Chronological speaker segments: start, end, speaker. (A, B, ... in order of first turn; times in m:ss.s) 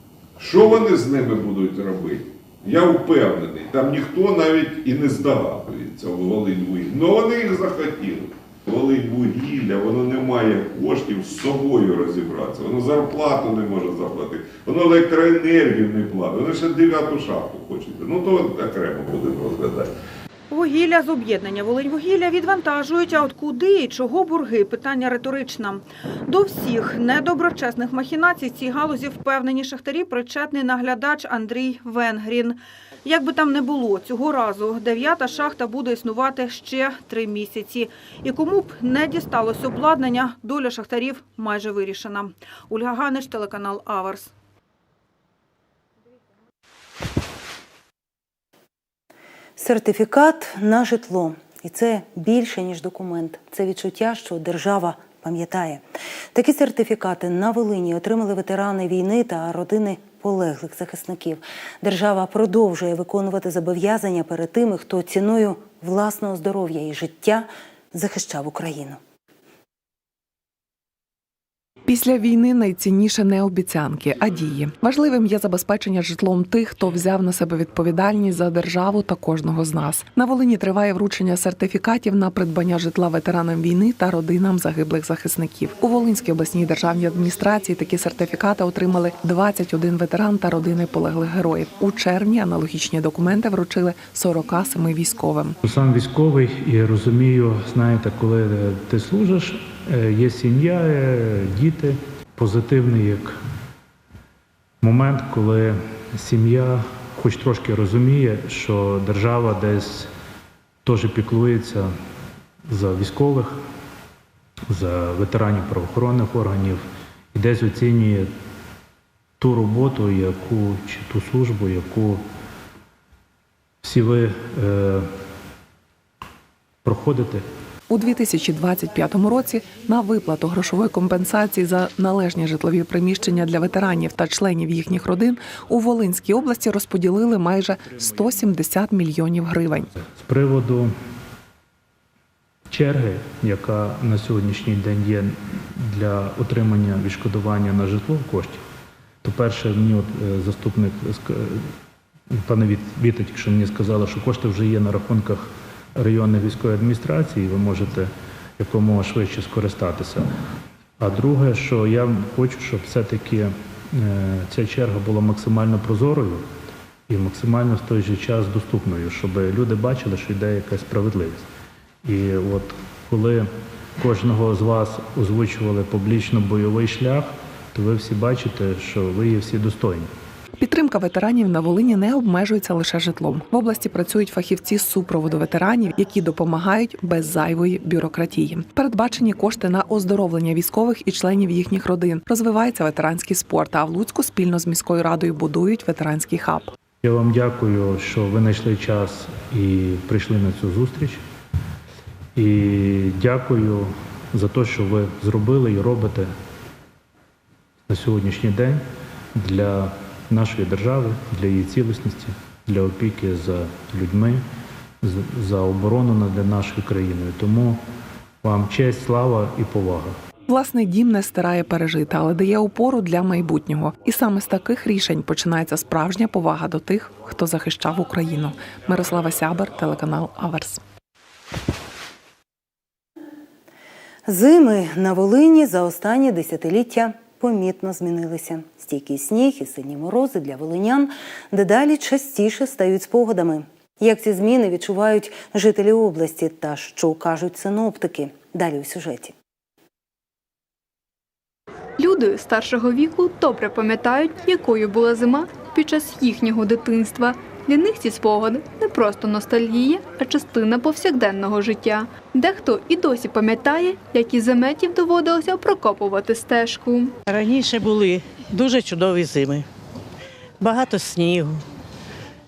0:00.4-0:19.9 A
0:20.5-0:44.3 B
0:49.6-1:09.0 C
1:11.9-1:35.6 D
1:35.6-1:43.4 E
1:44.8-1:50.1 E
1:50.8-1:51.9 E
1:52.7-1:53.6 E
1:54.7-1:58.3 E
1:59.4-2:02.2 E
2:03.8-2:05.1 E
2:06.8-2:07.5 E
2:07.9-2:19.9 D
2:20.0-2:20.9 E
2:22.7-2:28.6 E
2:29.2-2:31.7 E
2:32.3-2:40.3 E
2:41.0-2:46.4 E
2:47.1-2:51.5 E
2:52.0-3:00.1 E
3:00.6-3:16.7 D
3:17.0-3:21.2 E
3:22.4-3:26.3 E
3:27.9-3:34.4 E
3:35.0-3:37.8 E
3:38.4-3:40.2 E
3:40.5-3:50.8 D
3:54.3-4:09.3 C
4:12.0-4:27.2 F
4:27.3-4:29.7 G
4:30.6-4:31.6 G